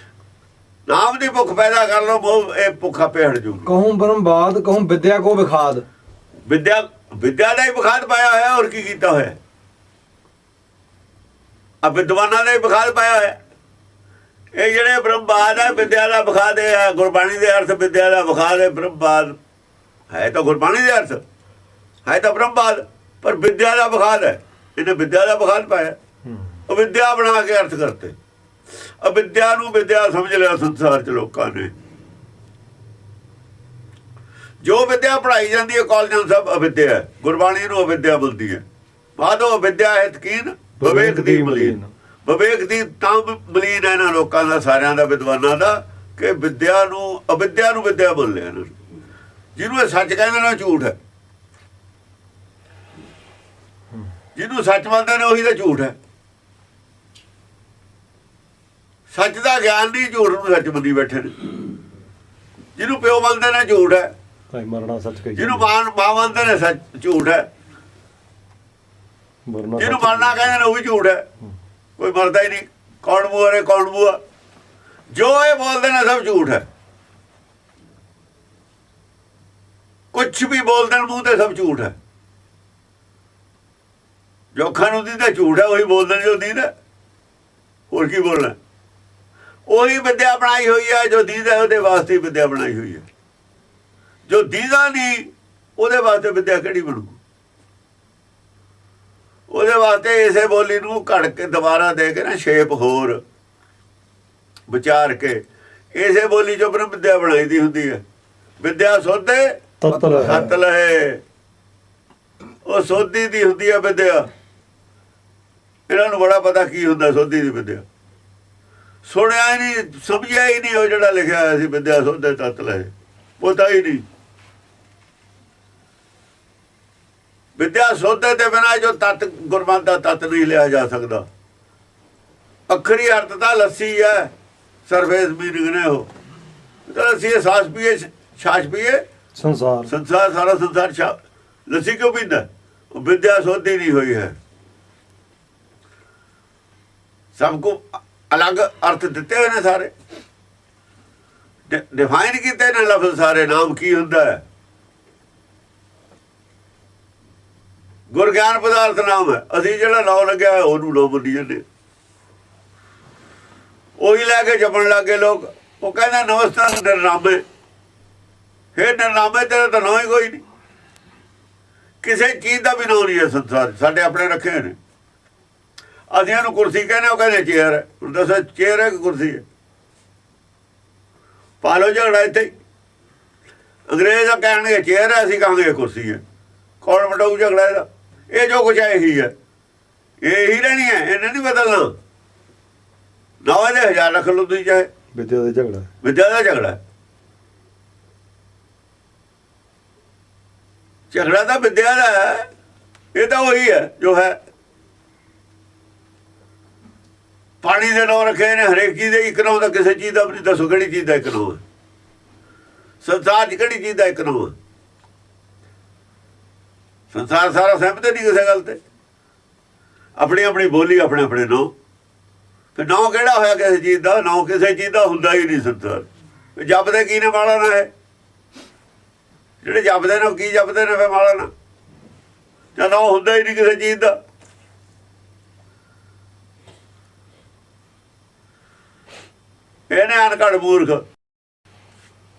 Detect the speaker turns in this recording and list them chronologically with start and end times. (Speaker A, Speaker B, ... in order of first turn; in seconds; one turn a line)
Speaker A: 0.9-3.7
Speaker B: 3.6-5.8
Speaker A: 6.5-9.4
Speaker A: 11.8-13.4
Speaker A: 14.5-19.4
Speaker A: 20.1-21.2
Speaker A: 22.1-25.9
Speaker A: 26.7-28.1
Speaker A: 29.0-31.7
Speaker A: 34.6-38.6
Speaker A: 39.2-48.7
Speaker C: 40.8-41.9
Speaker A: 49.5-51.0
Speaker A: 54.3-55.9
Speaker A: 59.1-61.5
Speaker A: 62.8-64.1
Speaker C: 64.5-65.7
Speaker A: 65.3-67.5
Speaker C: 69.5-70.5
Speaker A: 69.8-71.2
Speaker A: 72.0-74.2
Speaker A: 75.1-76.7
Speaker A: 80.1-81.9
Speaker A: 84.5-86.7
Speaker A: 87.9-88.5
Speaker A: 89.7-93.0
Speaker A: 94.3-97.2
Speaker A: 99.5-103.2
Speaker A: 104.7-108.0
Speaker A: 108.6-109.6
Speaker C: 109.8-110.4
Speaker B: 109.9-110.5
Speaker A: 110.2-111.2
Speaker A: 112.6-114.3
Speaker A: 115.9-117.8
Speaker A: 119.0-124.0
Speaker A: 127.6-131.2
Speaker A: 132.7-134.3
Speaker A: 134.9-136.1
Speaker A: 136.9-139.0
Speaker C: 139.3-139.9
Speaker A: 139.9-141.2
Speaker A: 141.7-144.3
Speaker A: 147.3-149.9
Speaker A: 151.7-154.4
Speaker A: 158.1-161.6
Speaker A: 164.0-167.4
Speaker A: 168.7-170.4
Speaker A: 172.0-174.8
Speaker A: 176.1-179.4
Speaker A: 181.6-182.5
Speaker A: 183.9-186.2
Speaker A: 186.8-189.3
Speaker A: 190.2-191.9
Speaker A: 193.4-194.9
Speaker C: 195.1-195.9
Speaker A: 196.0-196.8
Speaker A: 201.1-202.5
Speaker A: 203.1-204.4
Speaker A: 207.6-211.6
Speaker A: 213.0-214.5
Speaker A: 217.1-218.8
Speaker A: 220.2-221.7
Speaker A: 222.8-227.9
Speaker A: 229.6-231.5
Speaker A: 232.8-234.2
Speaker A: 239.9-241.0